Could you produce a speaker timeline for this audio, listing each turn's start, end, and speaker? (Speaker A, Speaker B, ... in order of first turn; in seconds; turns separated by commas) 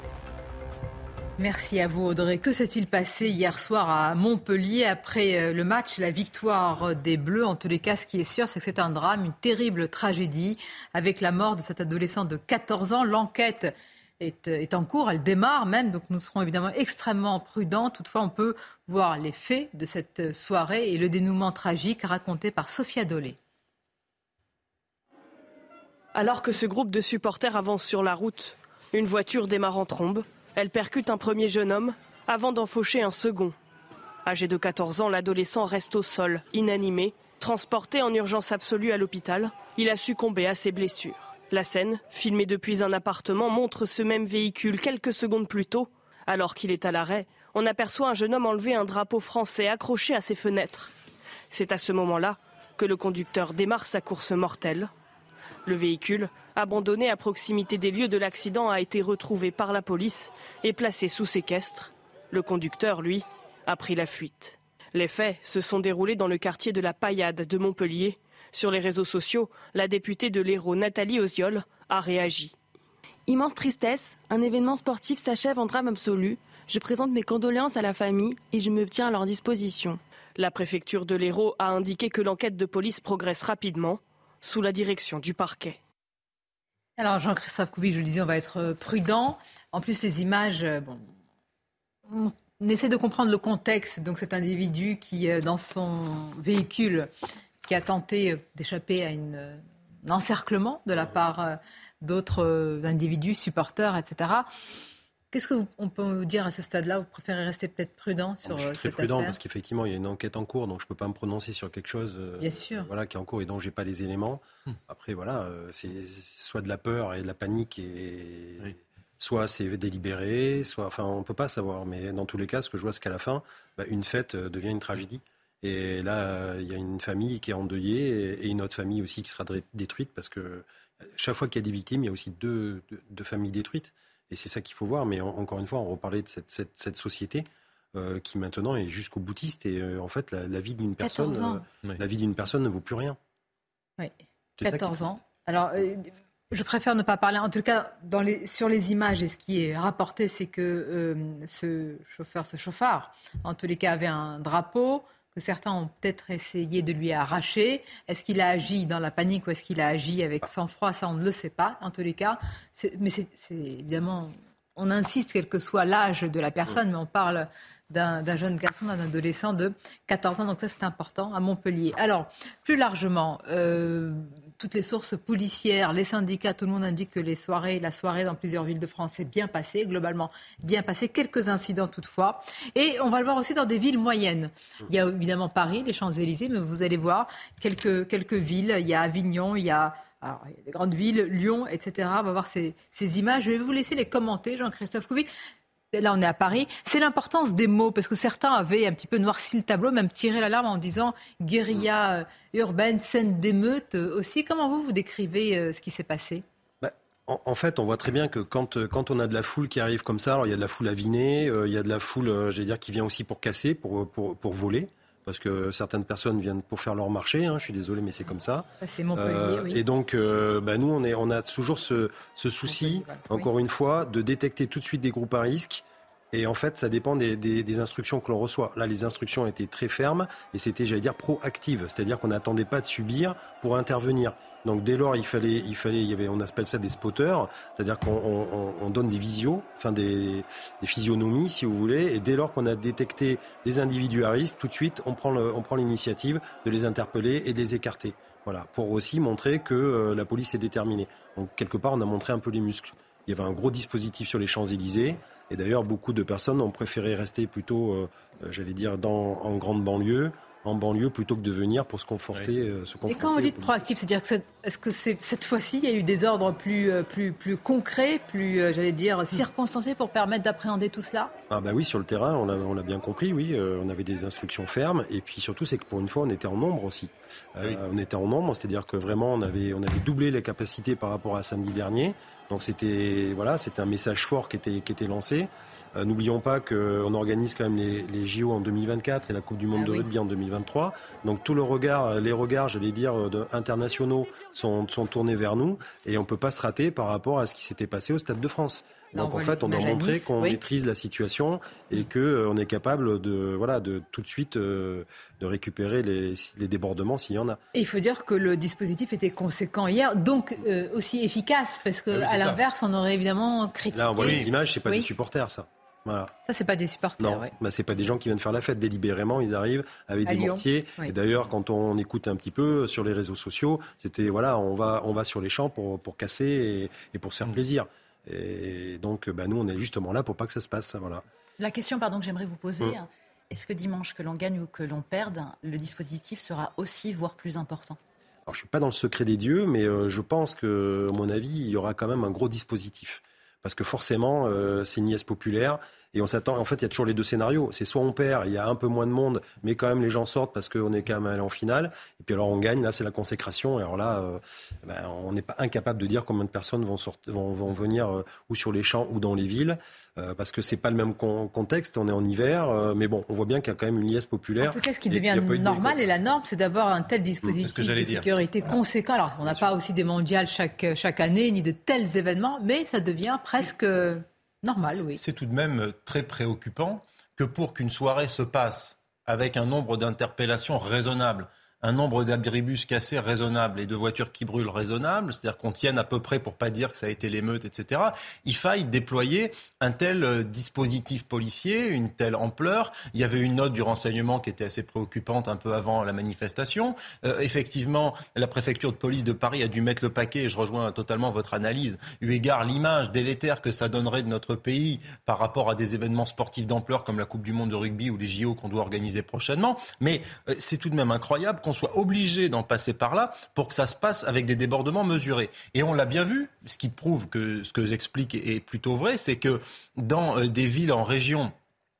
Speaker A: 1.4-23.4, Speaker B: 26.1-33.5, Speaker B: 34.2-50.9, Speaker B: 51.5-54.9, Speaker B: 55.6-72.5, Speaker C: 73.3-80.0, Speaker B: 80.4-85.8, Speaker A: 87.0-91.0, Speaker A: 92.1-97.1, Speaker A: 97.6-104.5, Speaker A: 105.3-109.3, Speaker D: 108.4-143.2, Speaker A: 112.4-112.9, Speaker A: 141.0-141.6, Speaker A: 144.0-195.3, Speaker D: 144.6-145.2, Speaker A: 195.9-206.4, Speaker D: 206.8-263.8, Speaker A: 218.8-219.8, Speaker A: 222.7-223.5, Speaker A: 263.1-271.3, Speaker D: 271.5-307.6, Speaker A: 289.7-290.1, Speaker A: 299.1-300.6, Speaker A: 307.7-315.1, Speaker E: 312.1-312.6, Speaker D: 313.9-316.3, Speaker E: 314.2-314.5, Speaker A: 316.4-317.5, Speaker D: 317.2-331.2, Speaker A: 320.2-321.1, Speaker F: 331.6-338.0, Speaker D: 338.5-366.0, Speaker A: 364.6-375.2, Speaker E: 367.4-368.2, Speaker E: 375.1-421.5